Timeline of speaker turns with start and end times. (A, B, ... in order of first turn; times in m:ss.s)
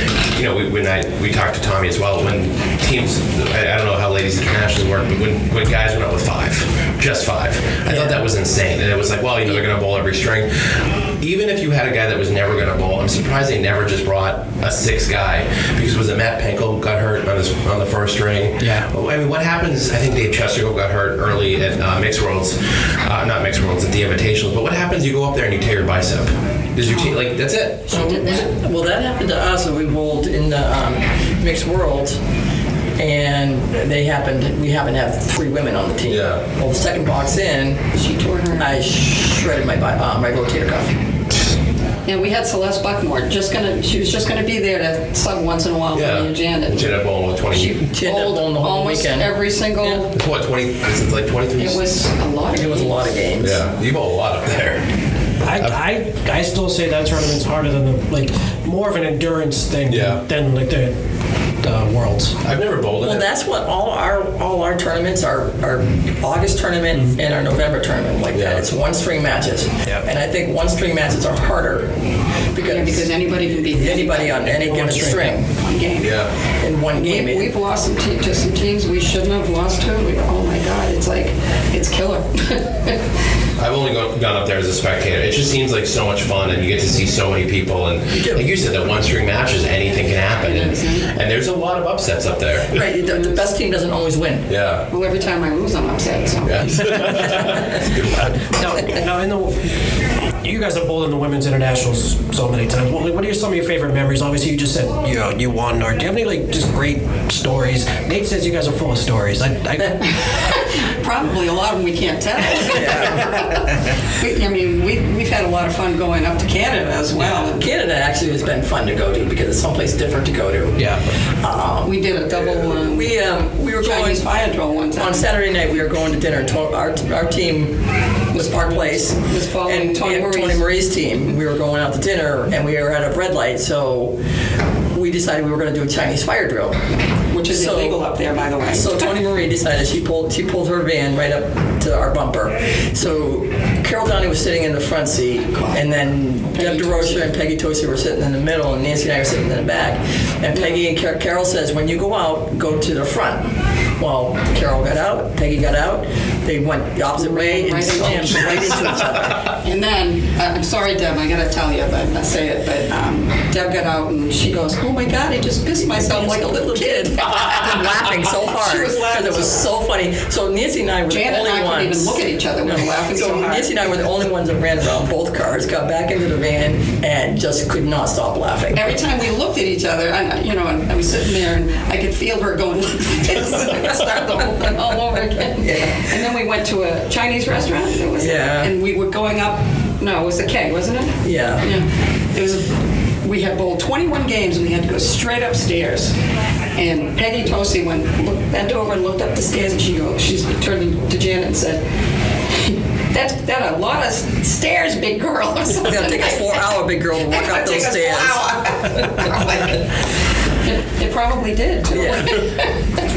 0:00.3-0:28.0 A
0:18.6-0:18.9 B
0:26.8-0:27.2 C
0:27.9-0:28.6 C
0:27.9-0:32.2 D
0:33.0-0:37.8 D
0:36.1-0:36.4 A
0:37.9-0:38.8 C
0:38.6-0:41.0 D
0:42.1-0:47.0 C
0:45.9-0:47.8 A
0:47.5-0:50.2 C
0:47.8-0:50.0 D
0:50.1-0:51.8 A
0:51.6-0:53.1 C
0:52.6-0:53.6 D
0:53.4-0:54.8 A
0:55.4-1:01.0 B
0:59.9-1:00.2 A
1:01.6-1:02.4 B
1:02.4-1:03.2 A
1:03.0-1:11.9 D
1:08.3-1:08.6 A
1:12.5-1:15.5 D
1:12.6-1:14.9 C
1:14.6-1:15.3 B
1:15.5-1:16.2 C
1:16.0-1:16.3 A
1:16.6-1:17.5 D
1:16.9-1:23.0 C
1:23.6-1:32.8 A
1:28.1-1:28.5 D
1:30.4-1:31.1 C
1:32.7-1:34.5 D
1:33.1-1:33.5 C
1:34.5-1:34.9 A
1:34.9-1:37.3 C
1:36.4-1:38.2 A
1:38.2-1:39.8 B
1:40.4-1:50.2 B
1:49.8-1:57.7 C
1:52.6-1:53.3 D
1:57.3-2:04.3 D
2:01.8-2:03.2 C
2:03.8-2:05.3 C
2:05.0-2:07.8 D
2:08.3-2:14.2 D
2:08.4-2:10.6 C
2:14.9-2:16.8 D
2:17.3-2:19.1 C
2:17.5-2:18.0 D
2:18.7-2:39.4 D
2:25.4-2:27.3 C
2:30.5-2:30.8 C
2:37.2-2:49.7 C
2:45.8-2:59.0 D
2:51.1-2:53.7 C
2:58.7-3:16.1 C
3:05.6-3:06.1 D
3:08.2-3:08.7 D
3:11.2-3:11.7 D
3:16.8-3:21.8 C
3:22.6-3:29.8 C
3:25.8-3:28.6 D
3:30.6-3:32.8 C
3:31.9-3:32.5 D